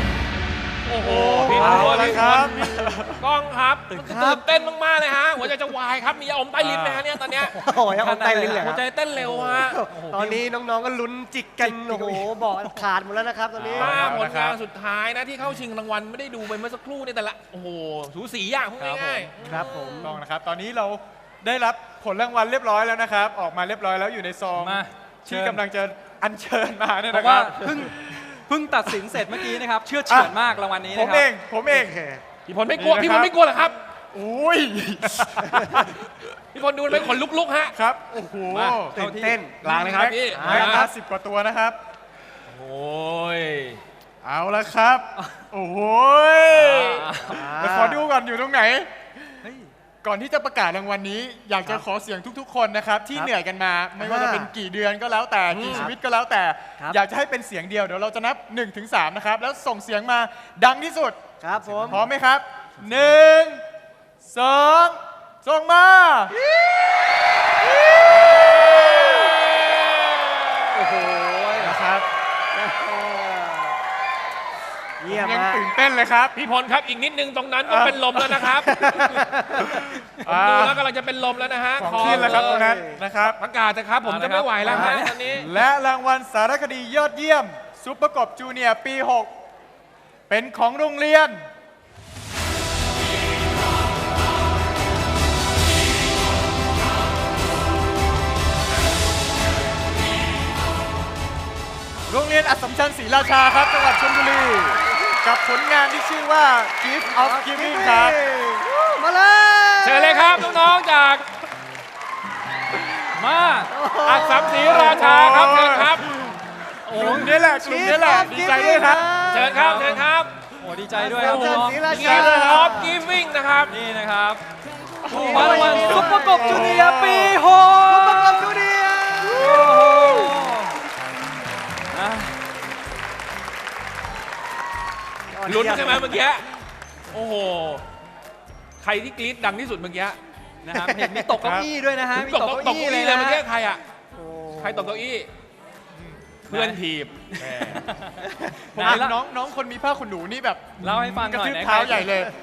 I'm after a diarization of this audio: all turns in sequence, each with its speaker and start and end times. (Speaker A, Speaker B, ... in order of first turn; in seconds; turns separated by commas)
Speaker A: 0.9-7.5, Speaker B: 0.9-3.2, Speaker C: 1.5-2.2, Speaker D: 1.5-2.5, Speaker C: 3.9-4.4, Speaker B: 6.6-7.1, Speaker D: 7.5-8.6, Speaker C: 7.6-14.1, Speaker A: 8.3-9.8, Speaker D: 9.9-10.4, Speaker D: 11.6-12.3, Speaker B: 13.7-14.6, Speaker A: 13.8-20.1, Speaker D: 18.8-19.5, Speaker C: 19.5-20.2, Speaker B: 19.6-28.4, Speaker D: 24.5-25.6, Speaker D: 27.1-31.3, Speaker B: 29.1-30.3, Speaker B: 30.9-32.0, Speaker C: 31.7-32.2, Speaker A: 32.5-33.8, Speaker B: 32.8-33.3, Speaker B: 34.1-36.0, Speaker A: 36.5-37.7, Speaker B: 37.7-38.9, Speaker D: 38.5-39.4, Speaker C: 38.9-40.9, Speaker B: 39.6-41.8, Speaker A: 39.6-40.9, Speaker A: 42.5-43.8, Speaker B: 44.2-48.9, Speaker A: 46.5-47.1, Speaker D: 46.8-47.5, Speaker C: 47.3-48.1, Speaker D: 49.4-49.7, Speaker B: 50.0-61.2, Speaker C: 54.0-54.5, Speaker A: 55.5-55.9, Speaker C: 55.7-56.0, Speaker C: 61.4-62.0, Speaker D: 61.6-62.0, Speaker B: 61.9-63.6, Speaker B: 64.2-66.3, Speaker A: 68.1-70.5, Speaker D: 70.7-71.8, Speaker B: 71.5-72.0, Speaker C: 72.5-73.8, Speaker C: 75.0-75.6, Speaker B: 75.1-76.3, Speaker A: 76.3-79.3, Speaker B: 77.7-80.8, Speaker C: 78.8-79.8, Speaker A: 80.2-82.7, Speaker B: 81.8-83.4, Speaker C: 81.9-83.0, Speaker A: 83.2-85.5, Speaker D: 84.0-85.3, Speaker C: 84.6-85.0, Speaker B: 85.3-89.3, Speaker B: 90.3-91.4, Speaker B: 102.1-108.2, Speaker C: 107.0-110.6, Speaker A: 109.8-111.3, Speaker D: 113.2-113.7, Speaker C: 113.7-115.2, Speaker A: 114.0-116.1, Speaker B: 114.8-116.3, Speaker D: 116.9-117.3, Speaker B: 116.9-119.1, Speaker C: 116.9-119.9, Speaker A: 119.2-120.3, Speaker D: 120.6-121.8, Speaker C: 120.9-122.9, Speaker A: 121.2-123.7, Speaker B: 121.9-122.7, Speaker D: 123.7-124.4, Speaker B: 125.0-127.4, Speaker C: 125.1-126.8, Speaker D: 125.1-128.4, Speaker A: 125.4-125.7, Speaker C: 127.8-130.3, Speaker D: 129.3-130.7, Speaker D: 131.9-132.3, Speaker C: 135.3-136.2, Speaker A: 135.4-136.5, Speaker A: 137.1-137.8, Speaker A: 138.8-140.2, Speaker D: 140.6-143.4, Speaker C: 140.7-141.3, Speaker B: 141.4-141.7, Speaker A: 142.1-143.8, Speaker C: 144.2-145.0, Speaker A: 144.6-145.3, Speaker A: 146.5-147.8, Speaker D: 146.5-148.2, Speaker C: 148.4-149.1, Speaker B: 148.7-152.3, Speaker D: 148.8-149.2, Speaker D: 150.8-152.1